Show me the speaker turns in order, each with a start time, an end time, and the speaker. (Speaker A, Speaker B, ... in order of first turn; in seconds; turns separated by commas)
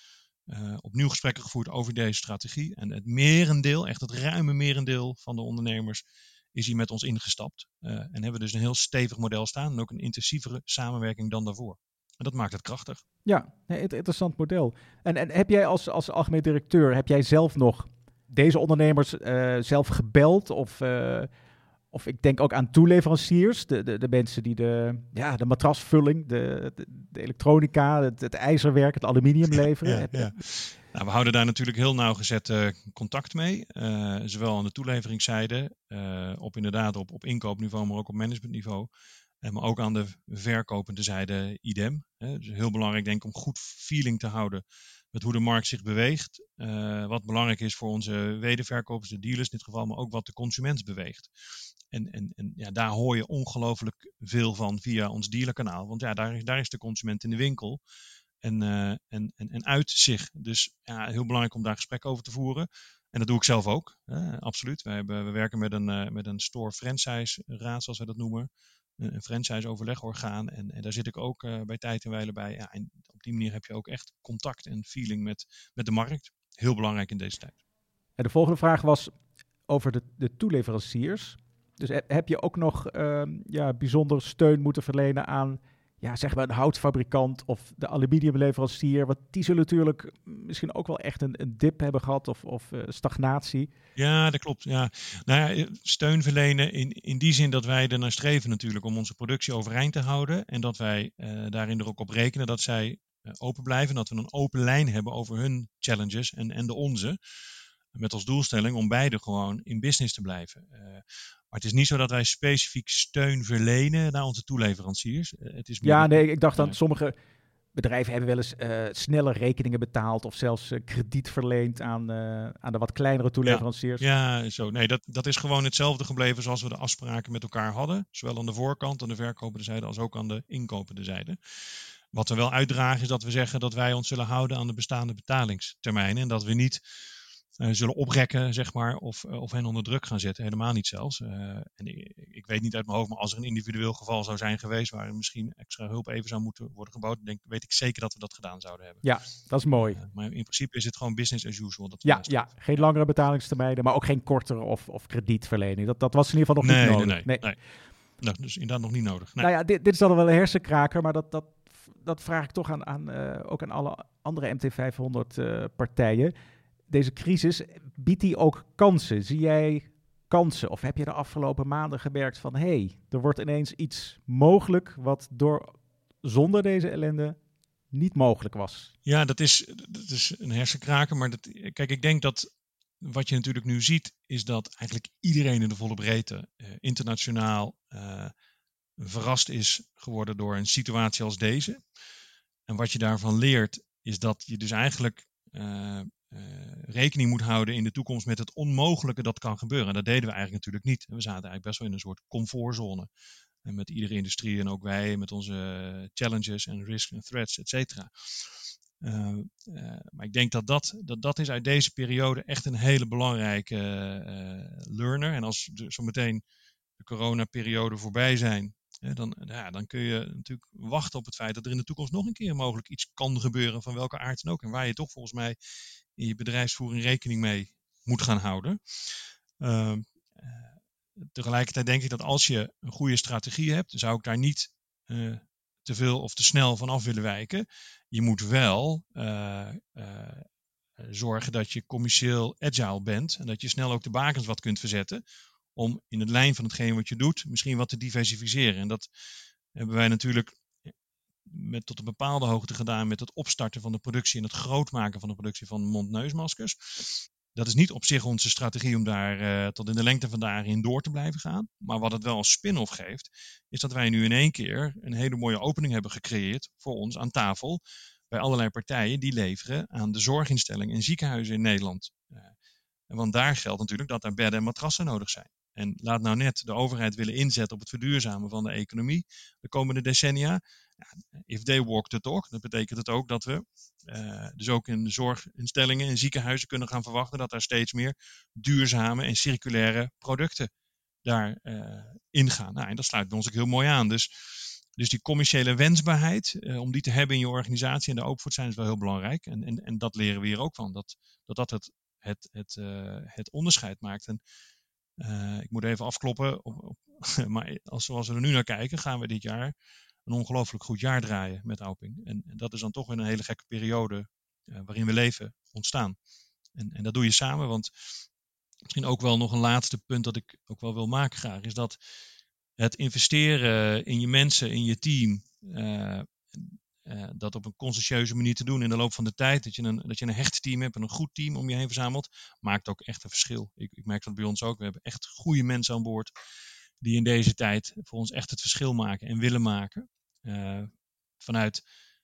Speaker A: 0.5-13.0, Speaker B: 13.2-21.3, Speaker B: 21.9-30.4, Speaker A: 29.8-38.9, Speaker A: 39.4-51.3, Speaker A: 51.9-57.8, Speaker A: 58.4-77.6, Speaker B: 78.2-79.1, Speaker B: 79.7-93.7, Speaker A: 94.0-107.2, Speaker A: 107.9-116.8, Speaker B: 115.8-117.2, Speaker B: 117.7-124.0, Speaker A: 123.5-131.4, Speaker A: 132.1-136.8, Speaker A: 137.6-149.0, Speaker B: 149.0-150.0, Speaker A: 149.8-152.8, Speaker B: 152.0-157.5, Speaker A: 156.6-157.6, Speaker A: 158.2-159.5, Speaker B: 159.4-166.3, Speaker B: 166.9-177.4, Speaker B: 177.9-178.9, Speaker A: 179.1-182.5, Speaker A: 183.0-188.3, Speaker A: 189.0-191.8, Speaker A: 192.7-203.1, Speaker A: 203.7-216.4, Speaker A: 217.0-225.6, Speaker A: 226.2-228.8, Speaker A: 229.6-230.7, Speaker A: 231.2-240.5, Speaker A: 241.0-245.2, Speaker A: 245.8-249.1, Speaker A: 249.8-250.9, Speaker A: 251.5-272.5, Speaker A: 273.1-280.6, Speaker A: 281.1-290.7, Speaker A: 291.2-304.4, Speaker A: 305.2-309.7, Speaker A: 310.3-316.2, Speaker A: 316.8-317.9, Speaker A: 318.9-322.0, Speaker A: 322.8-336.3, Speaker A: 337.0-341.8